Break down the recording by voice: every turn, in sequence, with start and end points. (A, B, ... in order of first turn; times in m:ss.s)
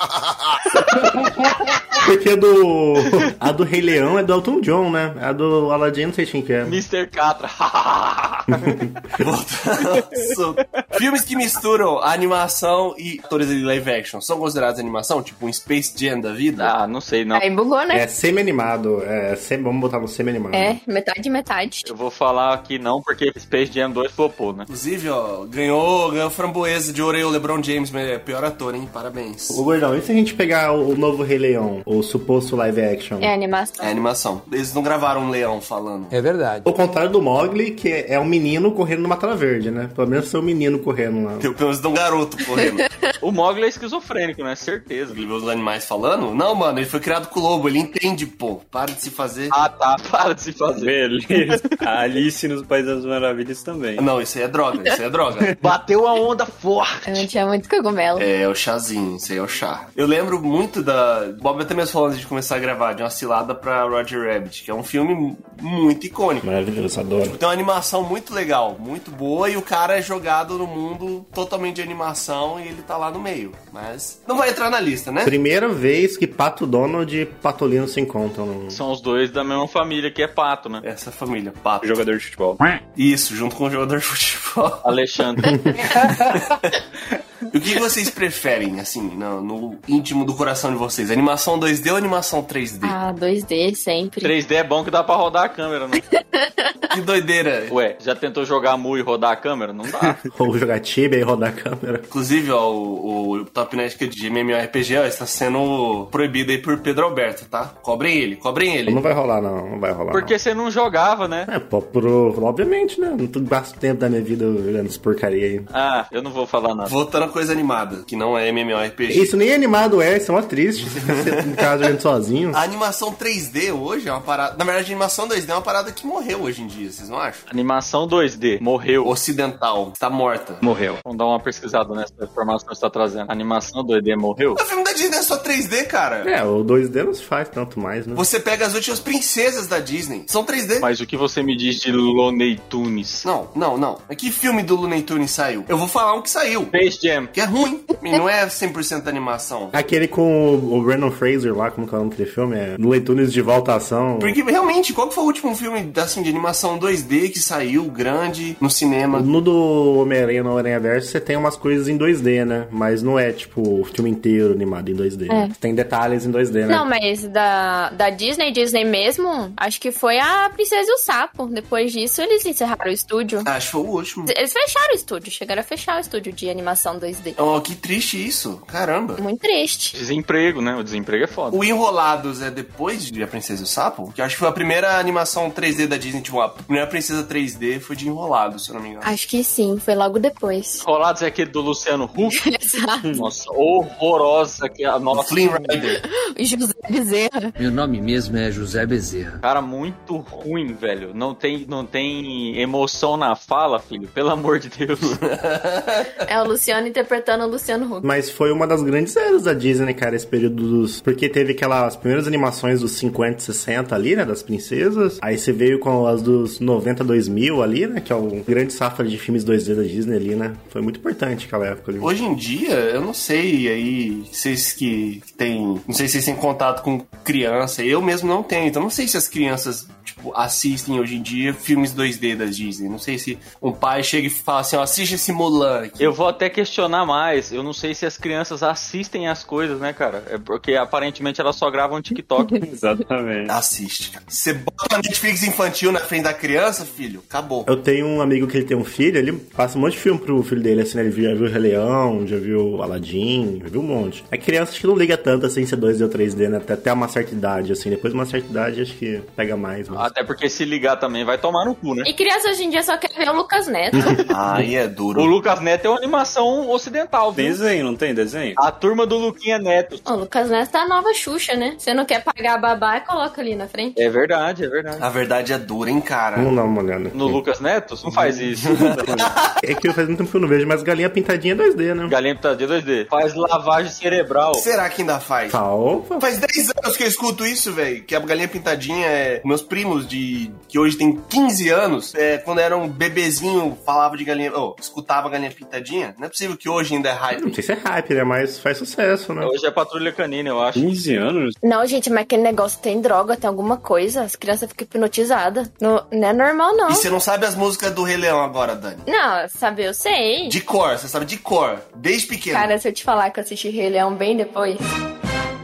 0:02.0-0:06.8 A
0:06.6-0:08.5 B
0:08.5-0:09.0 A
0:09.2-0:16.7 C
0:16.6-0:17.4 B
0:17.3-0:18.0 D
0:17.9-0:20.8 A
0:20.5-0:21.9 D
0:21.8-0:24.7 B
0:24.7-0:29.6 C
0:29.5-0:33.3 A
0:33.2-0:33.9 D
0:33.8-0:36.1 C
0:36.1-0:36.7 E
0:36.7-0:41.5 A
0:41.4-0:42.8 C
0:43.2-0:45.2 B
0:45.1-0:49.6 C
0:49.5-0:51.8 B
0:50.8-0:54.0 F
0:54.0-0:55.6 C
0:55.7-0:56.5 B
0:57.0-0:58.3 D
0:58.2-1:06.5 C
1:06.4-1:07.4 A
1:07.2-1:15.3 C
1:15.2-1:18.8 A
1:18.7-1:20.8 B
1:20.8-1:22.0 C
1:21.8-1:22.7 F
1:22.9-1:24.8 C
1:24.8-1:25.6 B
1:25.9-1:26.6 C
1:27.5-1:33.0 C
1:32.8-1:34.3 D
1:34.2-1:36.0 B
1:36.3-1:36.8 D
1:36.9-1:37.7 C
1:37.7-1:40.2 B
1:40.3-1:42.0 A
1:42.1-1:49.0 C
1:48.8-1:50.3 A
1:50.1-1:51.5 B
1:51.5-1:55.7 A
1:55.7-1:56.9 B
1:56.8-1:59.3 C
1:59.1-2:02.6 A
2:02.5-2:07.4 C
2:07.5-2:09.1 B
2:09.0-2:10.6 C
2:10.6-2:11.0 F
2:11.0-2:14.6 B
2:14.6-2:16.3 C
2:16.2-2:18.2 A
2:18.1-2:20.9 C
2:20.8-2:23.3 B
2:23.2-2:26.7 C
2:26.7-2:27.3 B
2:27.3-2:29.7 C
2:29.7-2:34.4 A
2:34.2-2:39.3 C
2:39.1-2:46.8 A
2:46.7-2:53.5 D
2:53.4-2:54.3 C
2:54.2-2:57.4 D
2:57.4-2:59.2 C
2:59.2-3:00.0 D
2:59.9-3:01.6 B
3:01.5-3:09.1 C
3:09.0-3:10.8 D
3:10.8-3:12.4 B
3:12.4-3:13.1 D
3:13.2-3:15.5 B
3:15.1-3:16.0 C
3:16.3-3:17.5 D
3:17.6-3:19.4 E
3:19.4-3:25.2 B
3:25.3-3:26.1 C
3:26.2-3:28.0 D
3:28.0-3:42.1 A
3:42.0-3:56.1 C
3:56.0-4:02.6 B
4:02.6-4:03.5 F
4:03.5-4:07.7 C
4:07.6-4:20.1 A
4:19.9-4:22.1 B
4:22.0-4:24.2 D
4:24.3-4:25.3 C
4:25.1-4:27.6 B
4:27.3-4:28.6 F
4:28.6-4:30.0 B
4:30.0-4:34.0 D
4:34.0-4:35.0 B
4:35.0-4:36.5 C
4:36.4-4:37.4 A
4:37.1-4:39.2 B
4:38.1-4:39.6 C
4:39.6-4:42.2 A
4:42.1-4:44.6 B
4:44.5-4:45.6 C
4:45.5-4:46.2 A
4:46.2-4:57.6 C
4:57.4-4:59.5 A
4:59.4-5:00.8 B
5:00.8-5:01.5 F
5:01.6-5:07.0 D
5:06.9-5:09.0 C
5:09.1-5:10.6 D
5:10.4-5:12.7 C
5:12.5-5:14.8 D